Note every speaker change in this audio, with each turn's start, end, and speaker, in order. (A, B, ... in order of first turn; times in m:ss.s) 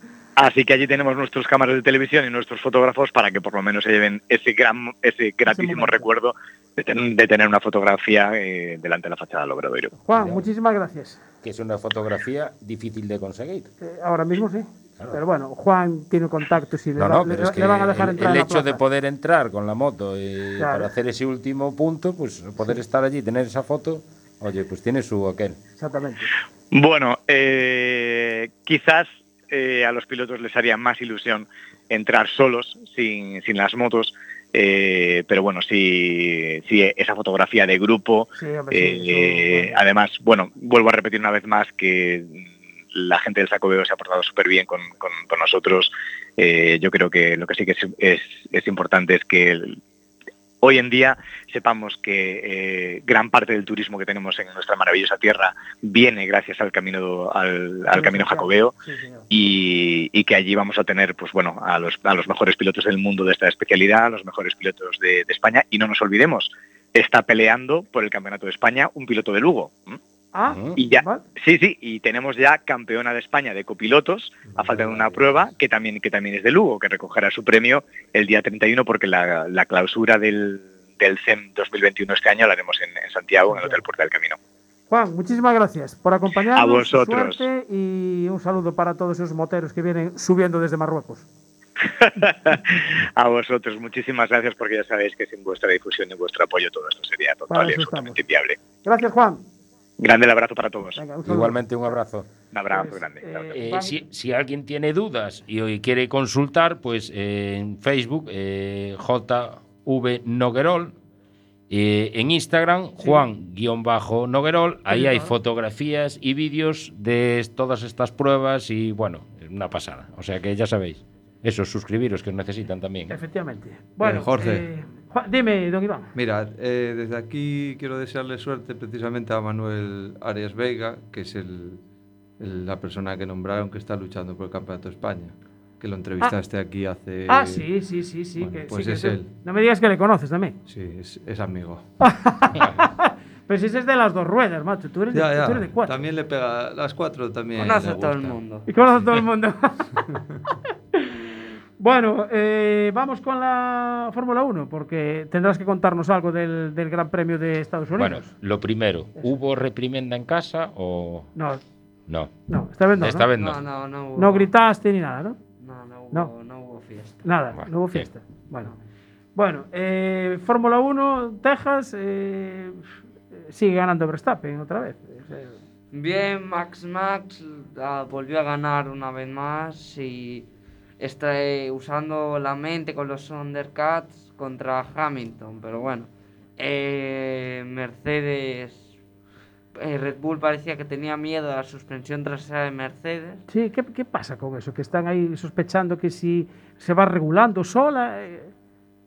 0:00.4-0:09.9 A
0:05.5-0:06.1 B
0:10.0-0:11.2 B
0:10.2-0:10.5 C
0:11.4-0:13.7 C
0:13.8-0:18.8 B
0:17.0-0:25.6 C
0:20.6-0:20.9 B
0:25.8-0:26.3 B
0:26.7-0:49.8 A
0:38.4-0:39.8 B
0:50.6-0:58.7 A
0:57.9-0:59.3 B
0:59.3-1:10.0 A
1:10.3-1:11.2 B
1:10.5-1:10.8 C
1:10.8-1:24.4 A
1:14.5-1:15.0 D
1:23.5-1:23.8 B
1:24.9-1:31.3 B
1:26.5-1:27.4 A
1:32.0-1:38.6 A
1:37.5-1:38.2 B
1:38.8-1:39.4 B
1:40.0-1:41.0 A
1:41.0-1:42.0 B
1:41.2-1:42.3 C
1:42.5-1:43.5 A
1:42.7-1:44.0 B
1:43.5-1:51.0 C
1:51.7-2:03.2 C
1:53.0-1:53.2 B
1:54.9-1:55.3 B
2:03.1-2:06.1 B
2:04.0-2:04.7 D
2:06.2-2:11.8 D
2:12.4-2:17.7 D
2:17.3-2:20.6 B
2:18.4-2:19.3 D
2:20.7-2:21.8 D
2:22.0-2:26.0 B
2:25.1-2:28.4 D
2:27.6-2:28.7 E
2:28.7-2:30.0 B
2:31.8-2:38.3 B
2:38.0-2:41.3 C
2:41.4-2:41.6 B
2:42.5-2:43.3 B
2:43.0-2:43.6 C
2:43.4-2:44.5 E
2:44.2-2:45.4 B
2:45.6-2:47.3 E
2:47.2-2:48.8 B
2:47.5-2:48.1 C
2:49.4-2:52.9 B
2:53.4-2:55.6 B
2:55.9-3:00.5 E
3:01.0-3:08.9 E
3:09.8-3:13.4 E
3:13.5-3:18.5 B